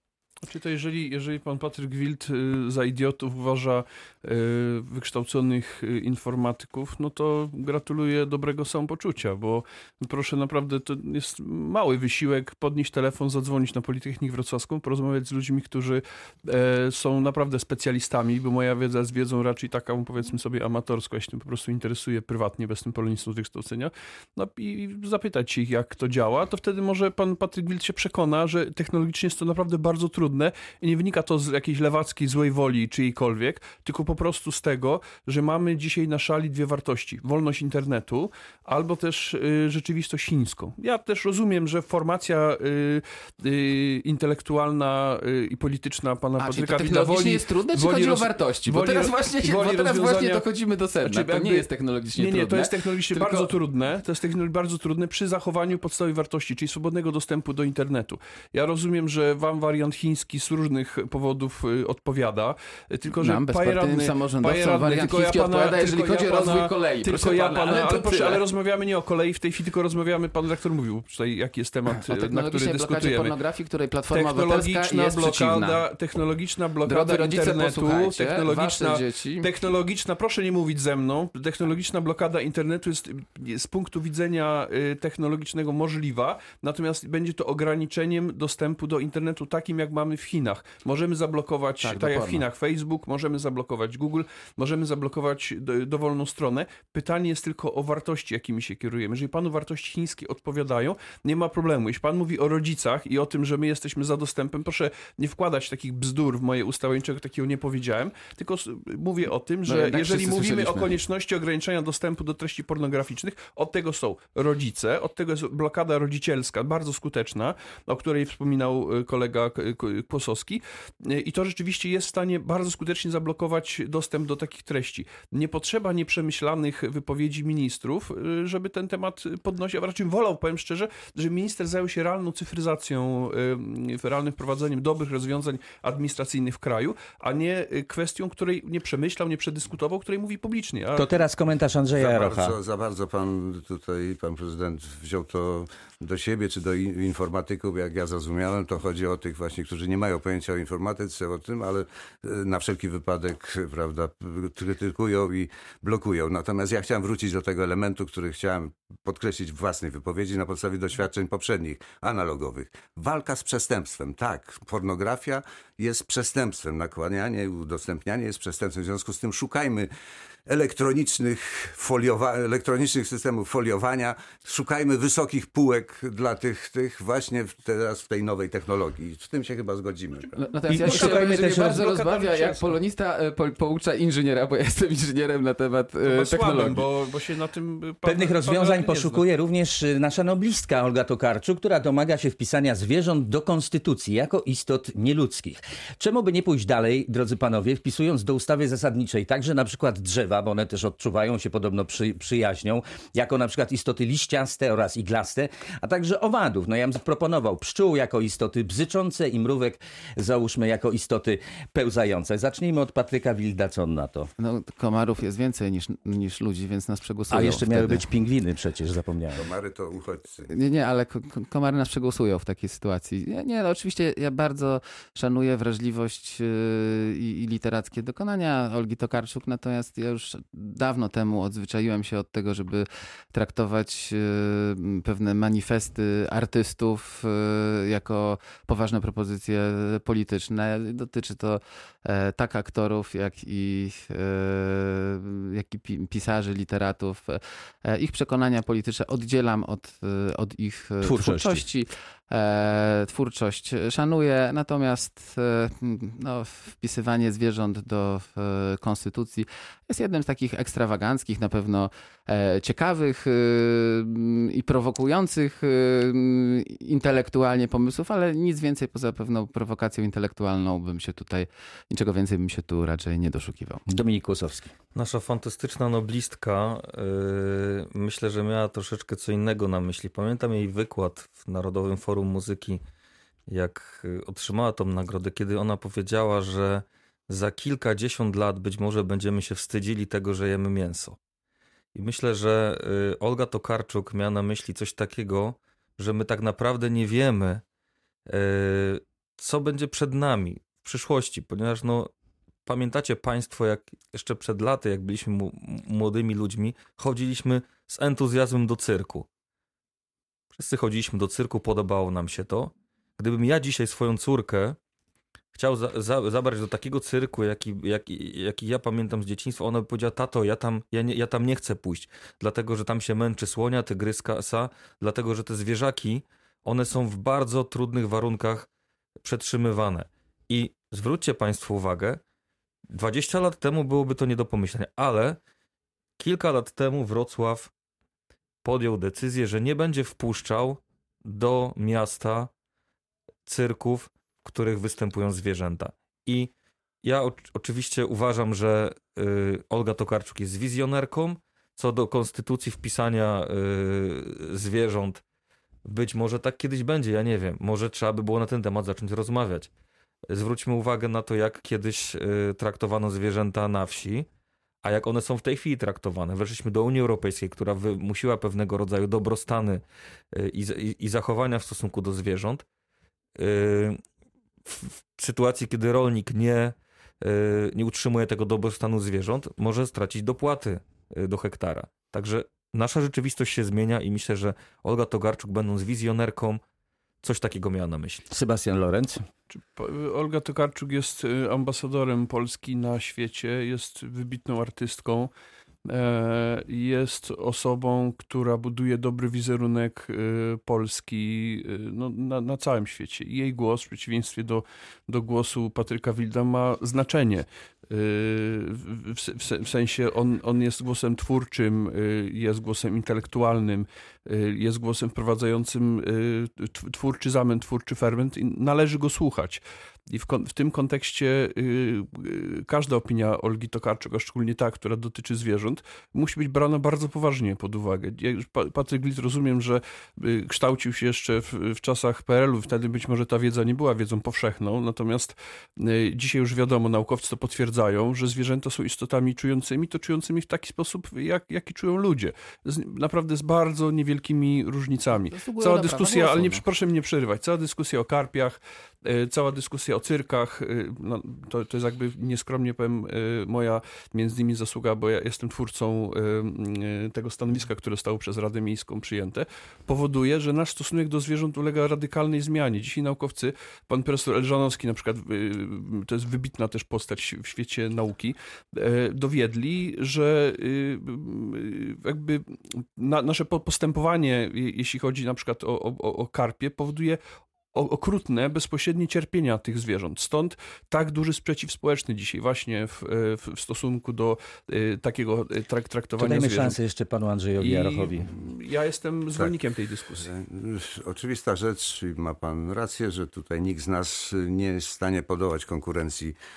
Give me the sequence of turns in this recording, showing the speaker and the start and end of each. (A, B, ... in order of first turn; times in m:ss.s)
0:00.4-0:50.4 A
0:46.4-0:53.5 B
0:51.0-1:13.4 A
1:03.2-1:08.4 B
1:12.0-1:15.8 B
1:14.1-2:21.1 A
1:16.9-1:19.5 B
1:31.8-1:32.4 B
1:49.7-1:51.0 B
2:21.0-2:22.6 C
2:22.0-2:49.9 D
2:50.5-3:00.4 D
3:00.4-3:06.9 B
3:00.7-3:01.9 C
3:00.8-3:02.8 A
3:06.0-3:09.2 A
3:08.0-3:34.3 C
3:34.4-3:38.0 B
3:37.3-3:39.5 C
3:39.4-3:40.5 D
3:40.5-4:33.8 B
4:11.0-4:11.6 C
4:33.9-4:34.7 C
4:35.0-4:42.8 E
4:43.5-4:51.2 E
4:51.9-4:57.6 E
4:58.3-5:02.1 E
5:02.6-5:09.3 E
5:10.5-5:14.8 E
5:15.5-5:28.7 E
5:29.2-5:32.2 E
5:32.9-5:35.4 E
5:36.2-5:37.7 E
5:38.6-5:42.5 E
5:43.4-5:46.5 E
5:47.0-5:55.2 E
5:55.8-5:59.7 E
6:00.3-6:04.3 E
6:04.8-6:12.6 E
6:13.4-6:14.0 E
6:14.6-6:26.6 E
6:27.2-6:28.3 E
6:28.3-6:29.2 C
6:29.7-6:35.3 A
6:35.8-7:57.2 A
7:25.1-7:26.6 B
7:57.7-8:06.8 A
8:06.2-8:08.3 C
8:07.6-8:10.3 A
8:10.2-8:16.4 D